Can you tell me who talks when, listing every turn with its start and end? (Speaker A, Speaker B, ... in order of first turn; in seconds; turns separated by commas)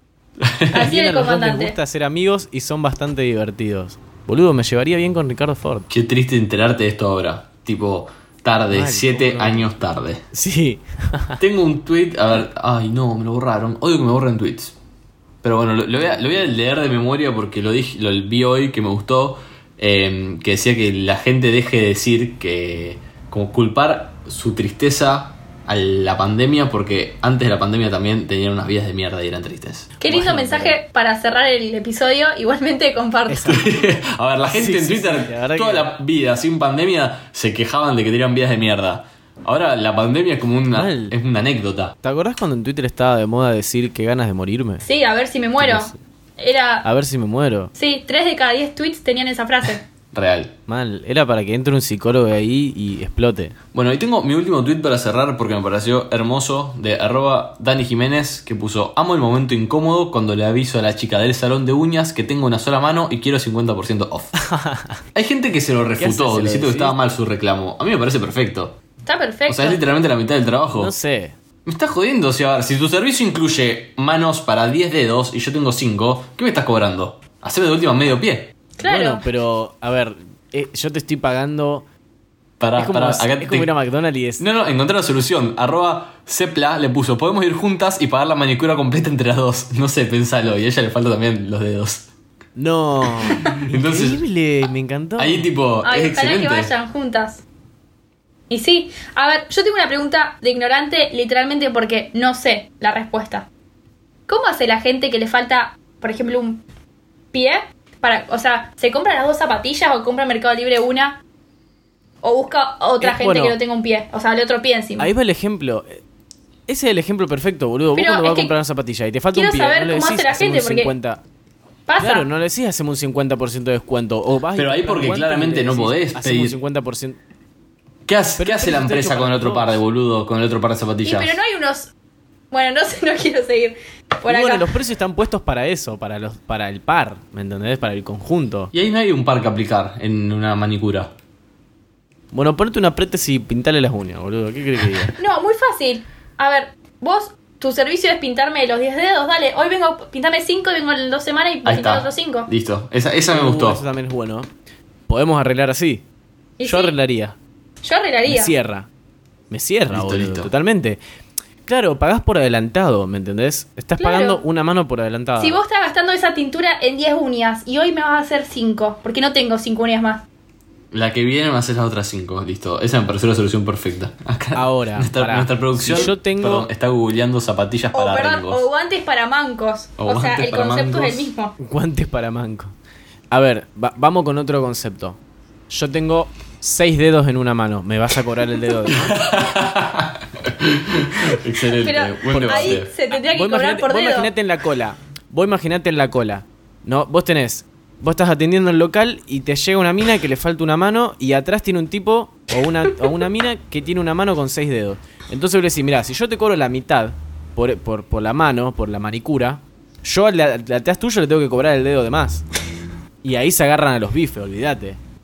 Speaker A: 0.4-0.8, Speaker B: 0.7-1.8, Speaker C: 0.7-5.9, Speaker A: 5.9-10.2, Speaker C: 8.7-9.8, Speaker C: 10.3-11.4, Speaker A: 11.4-14.8, Speaker A: 15.4-30.0, Speaker B: 30.0-33.6, Speaker C: 30.1-30.8, Speaker C: 33.3-33.8, Speaker A: 33.5-42.0, Speaker C: 34.5-35.9, Speaker C: 40.7-41.2, Speaker C: 42.0-44.9, Speaker B: 44.8-46.9, Speaker C: 45.6-46.0, Speaker C: 46.8-47.7, Speaker B: 47.8-49.9, Speaker A: 50.1-50.5, Speaker C: 50.7-53.6, Speaker A: 53.7-64.4, Speaker C: 64.4-65.0, Speaker A: 65.1-68.8, Speaker C: 66.0-67.0, Speaker B: 69.0-69.8, Speaker A: 69.5-70.9, Speaker C: 70.8-71.4, Speaker A: 71.7-78.5, Speaker B: 78.8-79.2, Speaker C: 78.8-81.9, Speaker A: 82.6-83.7, Speaker C: 82.8-84.5, Speaker A: 84.4-92.1, Speaker C: 92.6-95.5, Speaker A: 93.5-94.2, Speaker A: 95.2-96.7, Speaker B: 95.8-97.4, Speaker B: 98.5-103.5, Speaker B: 104.3-106.6, Speaker B: 107.3-111.2, Speaker B: 112.2-115.1, Speaker C: 113.0-113.6, Speaker C: 115.0-116.0, Speaker C: 116.7-121.2, Speaker B: 118.0-118.5, Speaker B: 119.3-120.9, Speaker B: 121.9-122.3, Speaker C: 122.0-127.2, Speaker A: 124.5-126.6, Speaker A: 128.1-131.4, Speaker C: 128.4-129.8, Speaker B: 131.0-131.9, Speaker B: 132.5-134.7, Speaker C: 134.3-138.7, Speaker A: 138.7-141.1, Speaker C: 142.3-145.1, Speaker B: 145.2-152.5, Speaker A: 151.7-153.8, Speaker C: 153.3-154.5, Speaker C: 155.1-156.0, Speaker B: 156.6-156.9, Speaker C: 156.7-157.4, Speaker B: 157.8-158.5, Speaker C: 158.3-158.9, Speaker C: 159.5-161.0, Speaker A: 159.9-160.5, Speaker C: 161.7-165.6, Speaker B: 164.0-164.4, Speaker B: 165.4-170.2, Speaker A: 170.9-178.7, Speaker C: 174.6-176.7, Speaker B: 177.9-181.5, Speaker A: 180.0-181.3, Speaker C: 181.6-182.7, Speaker C: 183.3-189.2, Speaker A: 189.0-192.9, Speaker B: 191.8-194.3, Speaker C: 192.3-212.4, Speaker C: 213.2-215.0